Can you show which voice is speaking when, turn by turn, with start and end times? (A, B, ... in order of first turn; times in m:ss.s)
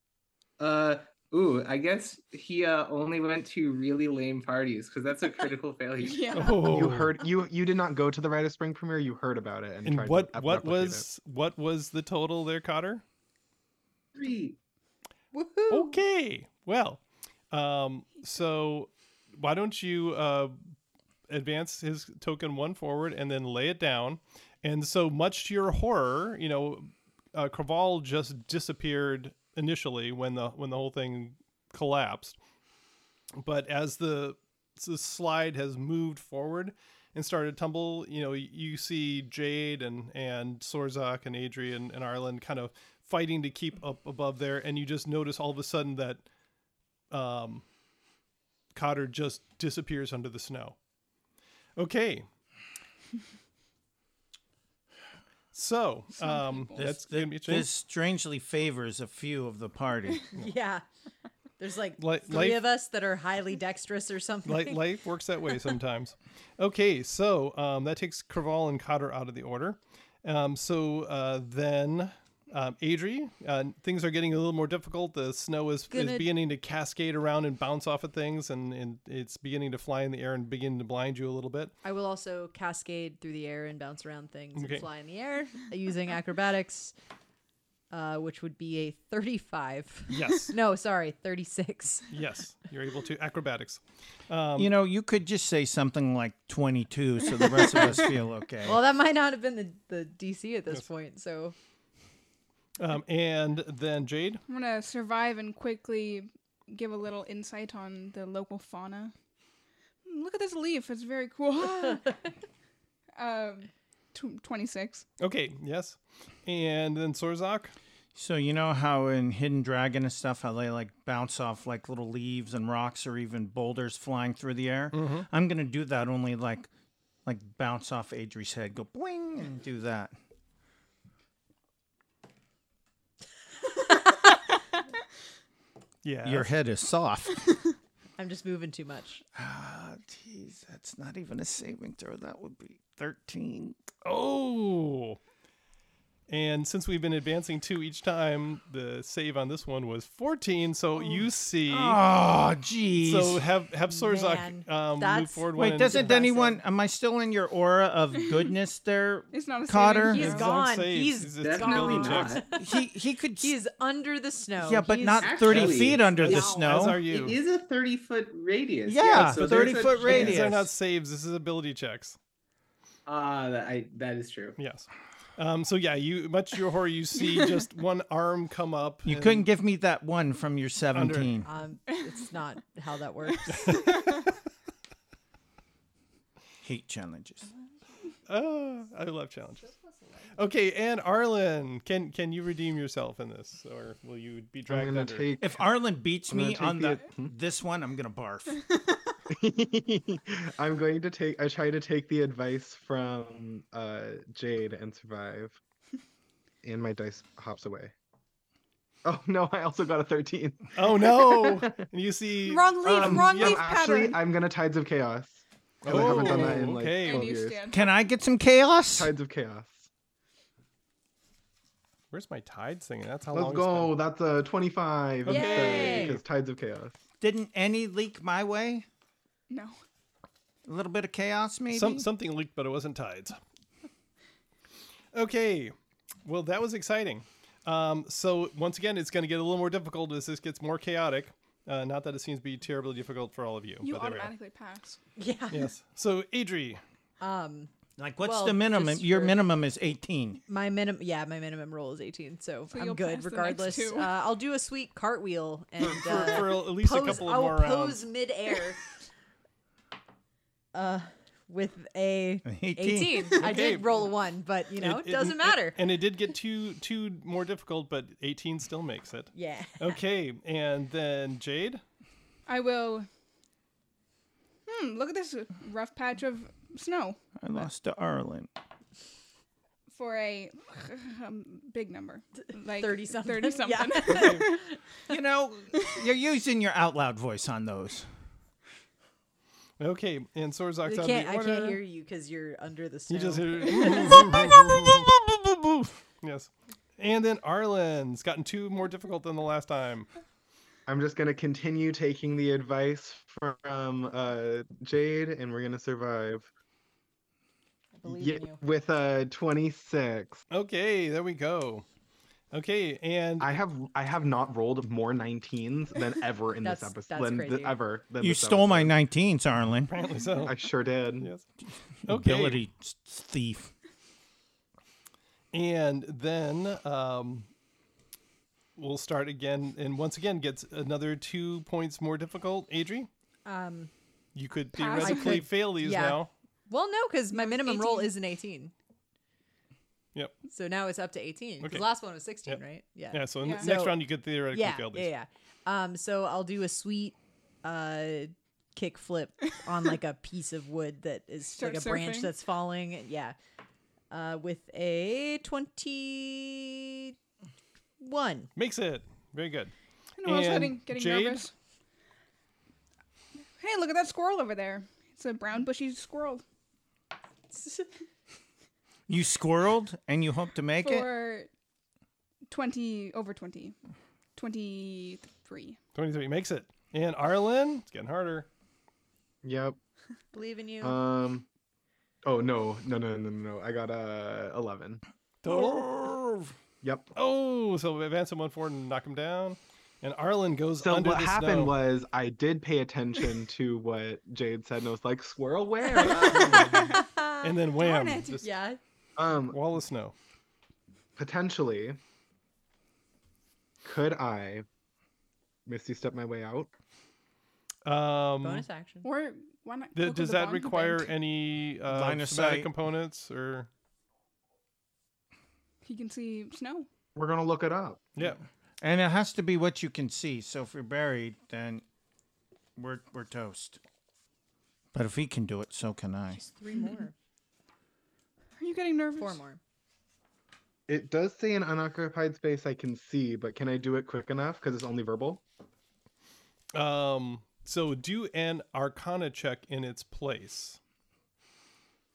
0:00.6-0:06.4 A
0:06.0-0:06.7 B
0:06.3-0:07.1 C
0:06.6-0:11.0 D
0:09.8-0:13.0 C
0:14.1-0:14.6 A
0:15.3-0:16.0 E
0:15.7-0:20.6 C
0:21.3-0:32.4 C
0:33.4-0:46.2 C
0:47.1-0:47.6 C
0:48.7-0:50.8 C
0:51.8-0:52.3 C
0:55.5-0:57.7 C
0:56.1-0:56.9 B
0:56.8-1:00.2 F
1:00.3-1:00.8 E
1:01.6-1:04.8 E
1:02.0-1:02.6 C
1:04.4-1:21.7 C
1:15.9-1:16.3 E
1:21.8-1:26.9 E
1:24.6-1:24.8 C
1:27.9-1:32.1 E
1:30.1-1:30.5 C
1:32.1-1:34.7 C
1:34.6-1:38.8 F
1:38.6-1:41.5 E
1:42.8-1:44.4 C
1:44.5-1:49.1 B
1:50.0-1:52.3 B
1:53.2-1:55.0 B
1:55.2-1:57.7 C
1:58.1-2:06.7 F
2:04.9-2:05.3 C
2:07.2-2:10.1 F
2:16.0-2:16.5 C
2:16.2-2:17.4 F
2:18.2-2:19.2 E
2:19.3-2:23.8 F
2:24.0-2:25.2 C
2:26.3-2:32.0 C
2:31.7-2:33.4 F
2:33.0-2:36.1 C
2:33.9-2:36.6 E
2:35.5-2:40.2 F
2:39.3-2:40.6 B
2:40.1-2:42.8 E
2:40.1-2:42.4 C
2:41.4-2:42.5 A
2:42.6-2:43.6 F
2:43.4-2:45.7 E
2:44.6-2:47.0 F
2:45.2-2:50.4 A
2:45.5-2:47.4 C
2:48.8-2:50.7 F
2:49.3-2:52.2 C
2:53.0-2:54.6 A
2:54.6-2:59.4 C
2:59.0-3:01.5 F
3:00.9-3:01.4 C
3:01.4-3:03.9 E
3:03.5-3:04.3 B
3:06.6-3:07.5 F
3:08.3-3:09.7 C
3:10.3-3:15.3 C
3:14.7-3:15.7 D
3:15.4-3:18.6 F
3:16.3-3:17.3 D
3:19.3-3:25.6 D
3:26.6-3:27.9 D
3:29.0-3:31.8 D
3:30.8-3:33.6 C
3:32.5-3:34.2 B
3:32.8-3:37.6 D
3:35.8-3:37.3 C
3:36.1-3:37.9 B
3:37.7-3:39.1 F
3:38.9-3:39.9 D
3:42.1-3:44.0 C
3:43.3-3:47.0 D
3:45.2-3:46.2 C
3:45.2-3:46.2 E
3:47.2-3:48.9 F
3:49.5-3:49.8 B
3:50.6-3:52.1 F
3:51.7-3:53.4 C
3:55.1-4:04.3 C
4:03.8-4:05.0 B
4:05.2-4:05.7 E
4:05.5-4:06.8 C
4:07.2-4:09.4 E
4:08.0-4:10.4 F
4:10.5-4:18.8 E
4:12.7-4:14.1 B
4:15.8-4:18.0 C
4:20.7-4:25.8 E
4:22.4-4:23.4 F
4:23.4-4:24.1 C
4:24.8-4:31.8 C
4:29.3-4:30.0 E
4:32.5-4:33.1 B
4:34.7-4:37.2 B
4:37.4-4:38.5 F
4:39.9-4:44.8 B
4:42.4-4:44.8 E
4:44.1-4:44.4 C
4:45.1-4:48.1 F
4:49.8-4:51.8 C
4:50.8-4:54.5 E
4:53.1-5:00.1 C
4:54.4-4:54.7 F
5:00.9-5:06.5 D
5:08.0-5:08.6 E
5:08.0-5:10.4 D
5:10.5-5:11.8 C
5:12.5-5:13.5 C
5:13.4-5:18.9 D
5:16.6-5:17.8 E
5:18.2-5:19.9 F
5:19.9-5:20.6 C
5:20.4-5:21.3 D
5:21.2-5:21.4 C
5:21.7-5:23.7 F
5:22.0-5:22.6 C
5:25.5-5:27.5 C
5:28.8-5:33.1 C
5:33.4-5:33.9 E
5:34.3-5:36.3 C
5:34.7-5:35.4 B
5:35.0-5:38.7 E
5:37.3-5:38.1 B
5:40.5-5:44.0 E
5:42.4-5:45.1 C
5:43.4-5:43.7 B
5:44.5-5:53.4 E
5:51.5-5:52.3 B
5:54.1-5:57.1 E
5:58.0-5:58.5 E
5:58.6-6:01.5 C
6:00.2-6:01.5 B
6:03.6-6:06.4 B
6:07.6-6:07.8 E
6:09.1-6:11.1 F
6:10.8-6:11.5 B
6:12.5-6:13.8 B
6:14.4-6:15.8 B
6:15.9-6:18.5 C
6:19.4-6:19.8 D
6:20.3-6:21.0 E
6:20.8-6:21.5 D
6:22.2-6:25.0 D
6:25.4-6:26.5 C
6:26.8-6:27.1 D
6:27.1-6:31.7 C
6:30.8-6:36.9 D
6:36.0-6:38.8 E
6:36.0-6:37.0 B
6:36.2-6:38.4 C
6:37.8-6:38.3 B
6:39.2-6:39.6 D
6:39.5-6:40.1 C
6:41.2-6:42.0 D
6:43.8-6:44.6 D
6:45.6-6:46.7 D
6:47.8-6:48.6 C
6:48.4-6:49.1 E
6:49.0-6:51.1 B
6:49.9-6:53.7 C
6:51.9-6:52.7 F
6:55.8-6:56.9 B
6:57.1-6:58.1 D
6:58.2-6:58.4 C
6:58.8-7:01.8 F
7:02.8-7:03.8 F
7:04.9-7:06.4 F
7:06.3-7:07.1 E
7:08.6-7:09.4 B
7:09.2-7:09.6 E
7:10.9-7:15.4 D
7:16.7-7:20.8 C